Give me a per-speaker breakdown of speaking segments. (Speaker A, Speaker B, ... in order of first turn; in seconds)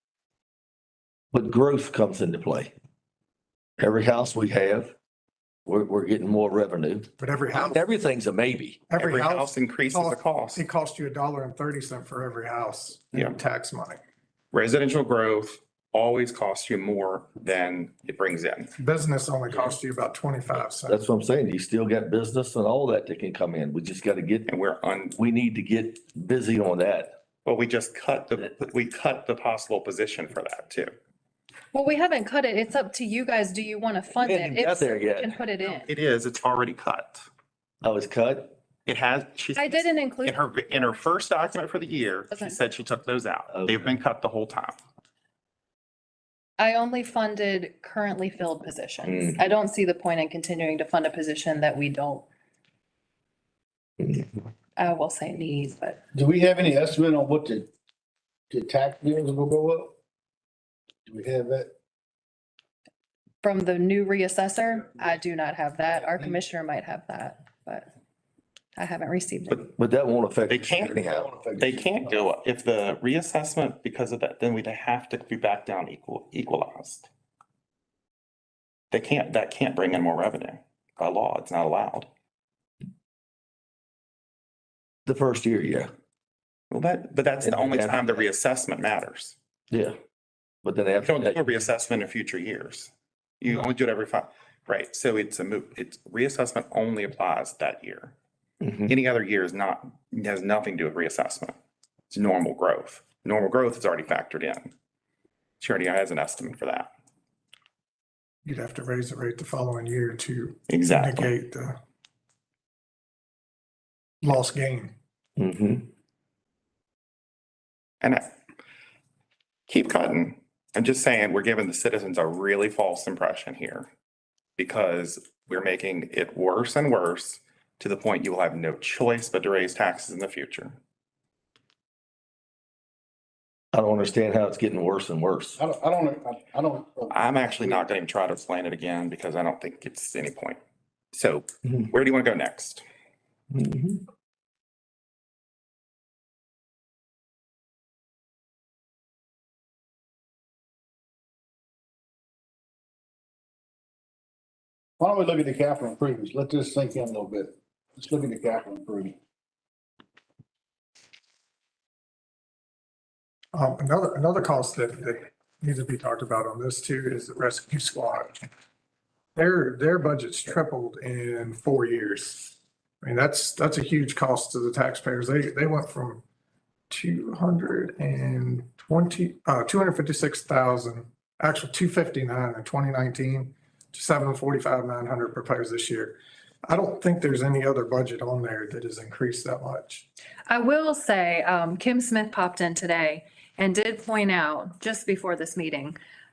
Speaker A: 1.3-2.7, 3.8-4.9, 5.7-8.8, 20.8-24.5, 25.1-27.1, 34.2-35.4, 37.8-38.5, 43.5-43.8, 49.0-49.4, 54.0-54.3, 69.5-71.3, 85.0-85.9, 87.4-88.2, 89.7-90.0, 90.6-91.4, 98.6-98.9, 115.4-115.9, 133.7-135.6, 143.5-144.1
Speaker B: 7.2-7.8, 8.9-14.0, 18.8-21.0, 108.4-111.8, 114.2-114.9, 163.5-168.4, 169.3-176.2, 176.9-190.1
Speaker C: 8.9-10.6, 14.5-18.7, 24.5-25.1, 27.4-30.9, 35.7-37.2, 38.9-44.8, 70.5-71.0, 71.6-77.1, 78.9-82.1, 86.7-89.4, 91.0-98.2, 98.9-101.6, 102.1-104.7, 105.6-106.9, 110.7-111.3, 118.0-118.3, 119.7-123.9, 124.6-130.8, 137.1-140.6, 141.1-142.8
Speaker D: 31.7-35.9, 39.5-41.0, 42.3-42.8, 46.6-52.3, 54.8-56.0, 63.4-67.9, 68.8-69.6, 190.5-196.0
Speaker E: 56.1-57.7, 58.5-60.0, 61.0-61.7, 65.9-66.3, 70.9-71.9, 135.6-137.9, 155.0-159.2